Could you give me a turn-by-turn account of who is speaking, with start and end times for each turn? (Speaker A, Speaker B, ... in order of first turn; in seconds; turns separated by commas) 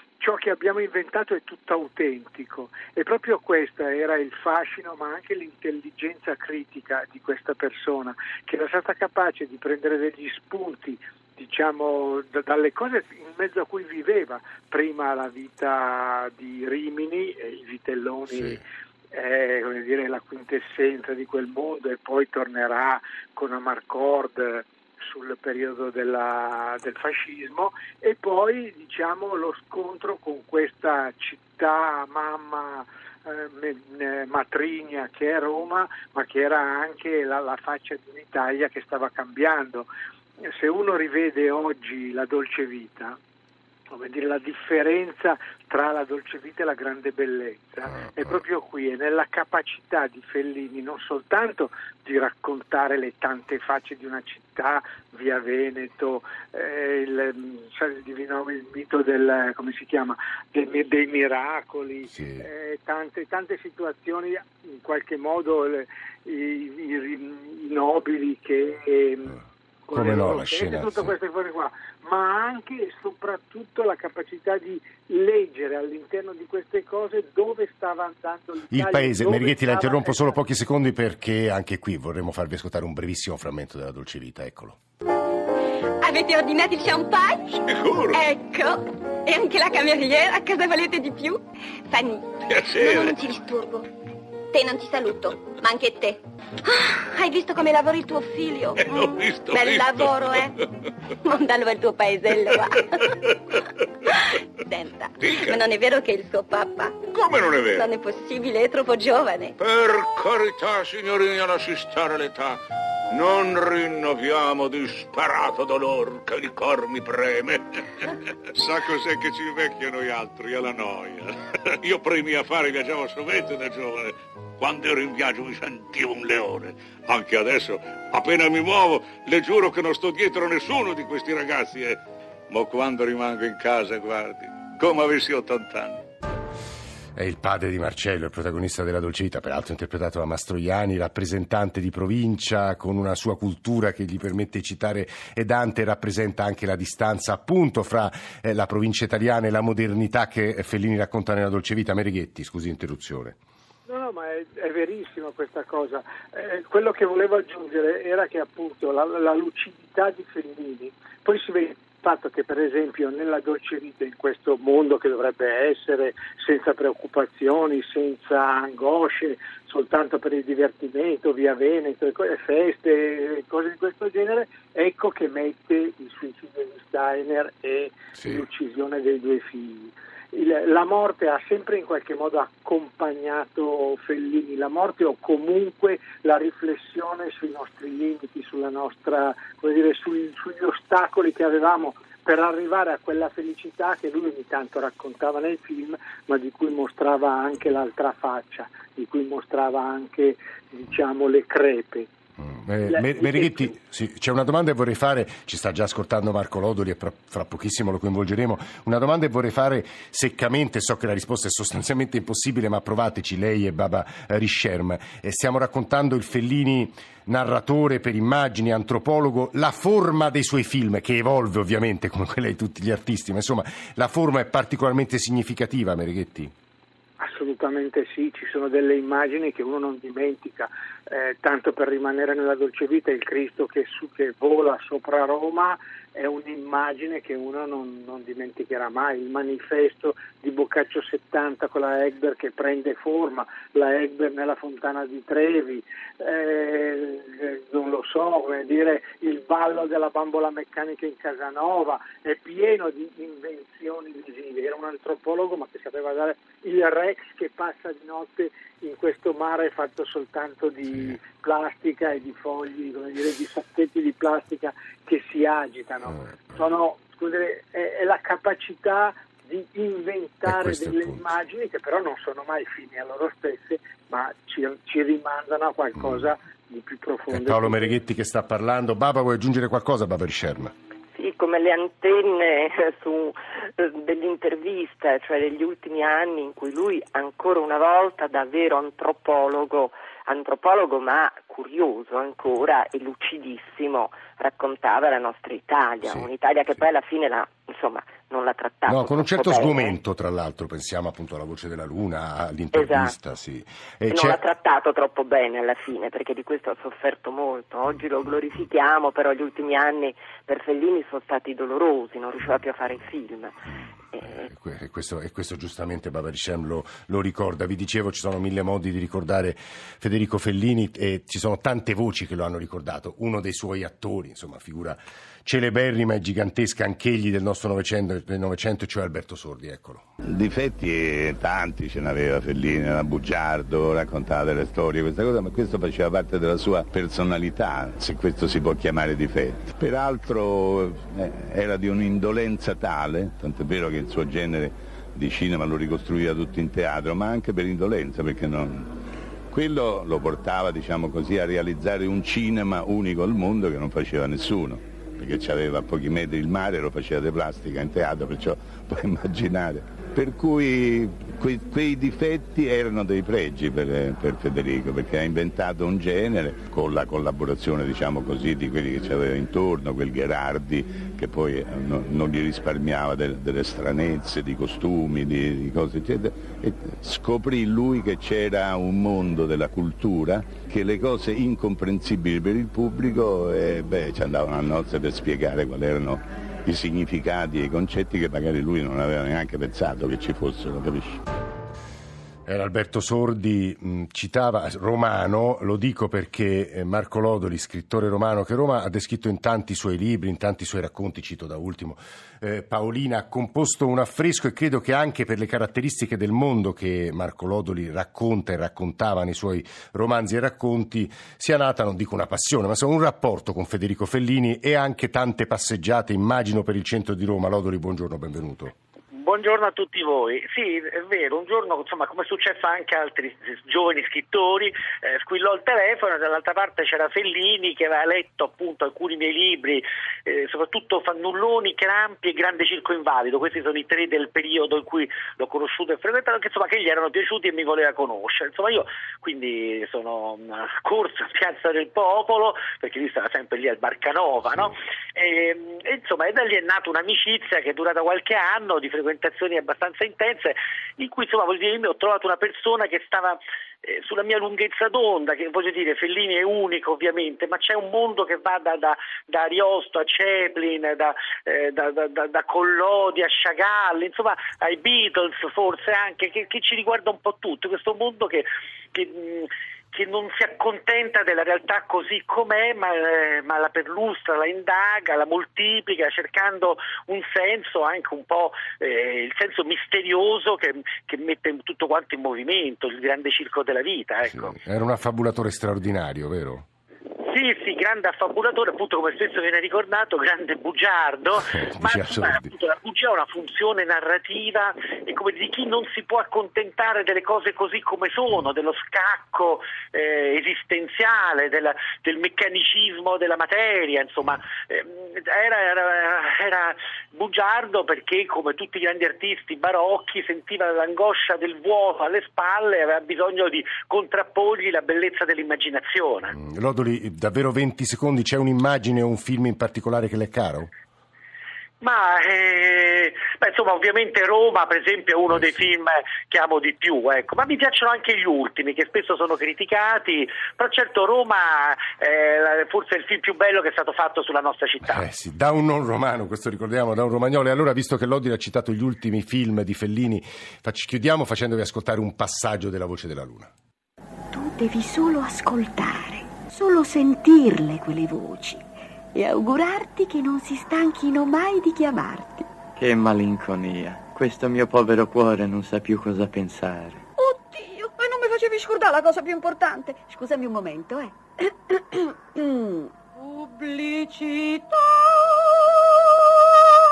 Speaker A: 0.2-39.9, Speaker B: 18.3-18.6, Speaker A: 40.4-43.2, Speaker A: 43.9-80.4, Speaker B: 62.1-62.5, Speaker B: 69.9-71.2, Speaker B: 78.7-84.8, Speaker C: 86.0-87.6, Speaker D: 87.7-88.3, Speaker C: 88.1-93.9, Speaker D: 92.4-93.3, Speaker C: 94.5-100.5, Speaker D: 98.8-100.7, Speaker C: 101.2-103.0, Speaker D: 102.4-103.2, Speaker C: 104.7-109.5, Speaker D: 105.2-105.6, Speaker D: 107.1-107.9, Speaker D: 109.6-112.6, Speaker D: 113.1-136.0, Speaker B: 137.2-153.4, Speaker A: 153.9-202.1, Speaker B: 178.2-178.4, Speaker B: 202.4-226.5, Speaker A: 202.9-203.7, Speaker A: 227.2-277.9, Speaker B: 270.4-271.3, Speaker B: 276.0-276.2, Speaker B: 277.3-280.7, Speaker E: 281.1-300.0, Speaker B: 298.9-304.4, Speaker E: 302.7-303.1, Speaker E: 304.1-314.5, Speaker B: 314.3-330.1, Speaker F: 330.3-348.9, Speaker F: 349.5-391.2, Speaker B: 392.5-418.7, Speaker G: 419.1-484.5, Speaker B: 484.2-486.6, Speaker G: 487.2-516.3, Speaker B: 491.5-492.5, Speaker B: 516.3-520.7, Speaker G: 521.8-535.0, Speaker B: 534.8-543.5, Speaker H: 544.3-548.6, Speaker H: 549.1-552.5, Speaker I: 552.8-557.0, Speaker H: 558.7-561.1